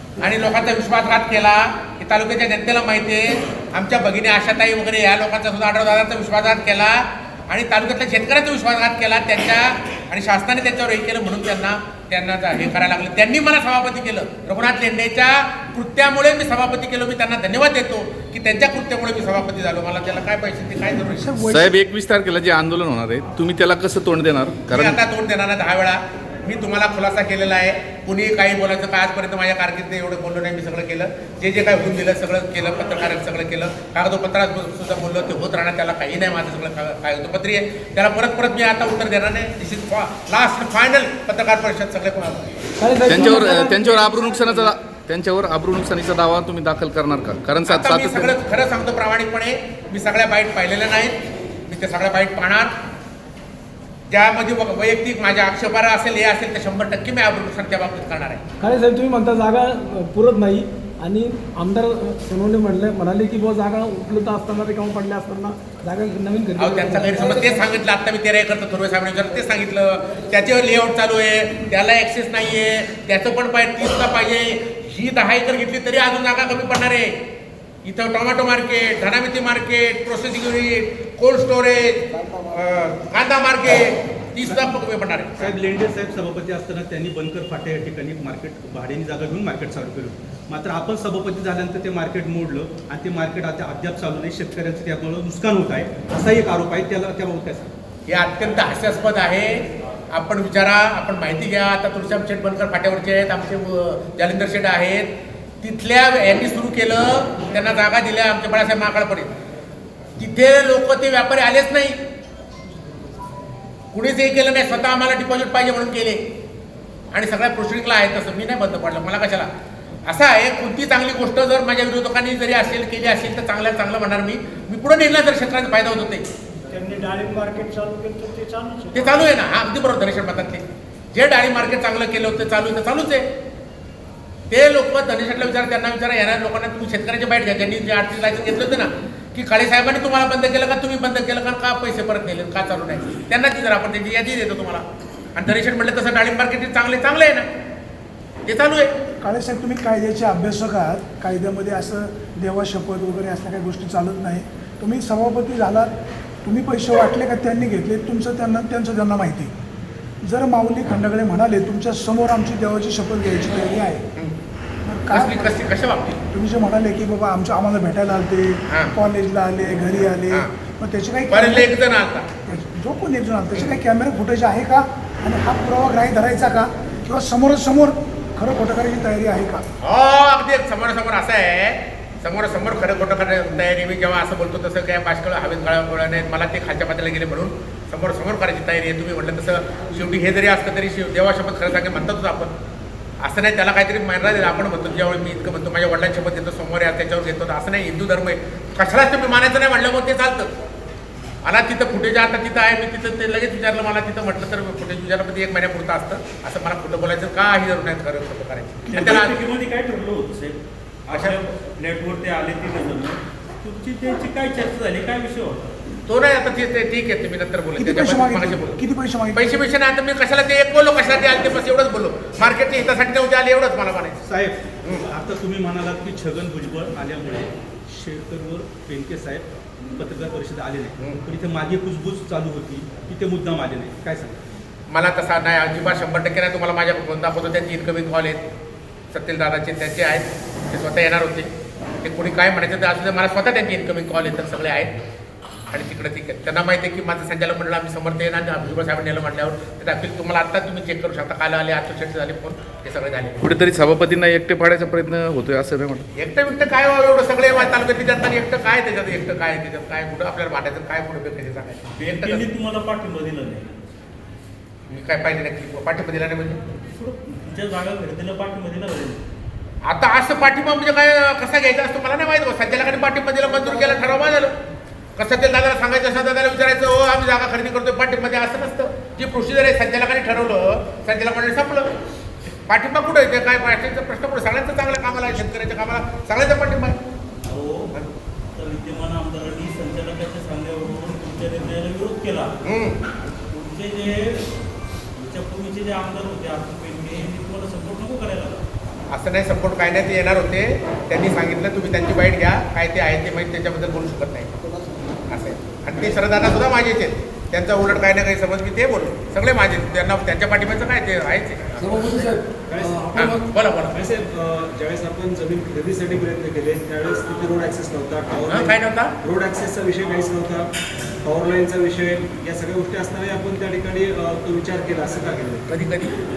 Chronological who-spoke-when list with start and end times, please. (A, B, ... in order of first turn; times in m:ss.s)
0:00.2-0:21.2 A
0:21.1-0:21.8 B
0:21.5-0:25.0 C
0:24.7-0:42.5 A
0:42.8-0:44.6 D
0:43.0-0:48.4 C
0:47.6-0:52.7 A
0:54.1-0:58.4 A
0:58.6-1:07.7 D
1:06.6-1:17.1 A
1:17.8-1:25.5 A
1:25.4-1:37.7 E
1:38.1-1:45.1 A
1:45.6-1:49.4 A
1:50.2-1:52.0 A
1:53.9-1:56.2 A
1:57.1-1:59.5 A
2:00.0-2:06.2 A
2:06.7-2:09.0 F
2:08.9-2:13.2 A
2:14.5-2:27.4 A
2:28.5-2:28.9 A
2:29.2-2:35.9 B
2:36.4-2:39.5 B
2:40.2-2:44.0 B
2:44.8-2:45.7 B
2:45.1-2:46.2 A
2:46.3-2:51.7 B
2:48.7-2:49.0 A
2:51.3-2:52.6 A
2:52.4-2:59.6 B
2:59.8-3:12.5 A
3:13.2-3:20.5 A
3:21.4-3:29.3 A
3:28.8-3:29.1 B
3:28.9-3:35.7 G
3:31.1-3:31.4 A
3:36.1-3:38.8 A
3:37.8-3:39.5 B
3:39.3-3:44.2 A
3:44.2-3:49.4 E
3:50.0-3:54.4 E
3:54.9-3:58.4 A
3:59.1-4:01.5 A
4:02.0-4:05.0 A
4:05.7-4:13.4 A
4:13.4-4:16.1 C
4:16.2-4:22.4 A
4:22.0-4:23.8 G
4:24.9-4:26.6 A
4:27.0-4:29.2 G
4:29.8-4:34.5 A
4:35.2-4:41.9 A
4:42.7-4:46.9 A
4:47.5-4:47.9 G
4:48.6-4:52.5 G
4:52.6-4:53.0 A
4:53.5-4:54.4 G
4:55.2-4:58.6 G
4:59.1-5:04.5 A
5:05.3-5:12.1 A
5:12.6-5:13.1 H
5:13.1-5:14.0 A
5:13.9-5:18.6 H
5:18.5-5:19.1 A
5:19.2-5:20.7 H
5:21.2-5:25.6 H
5:25.7-5:26.2 A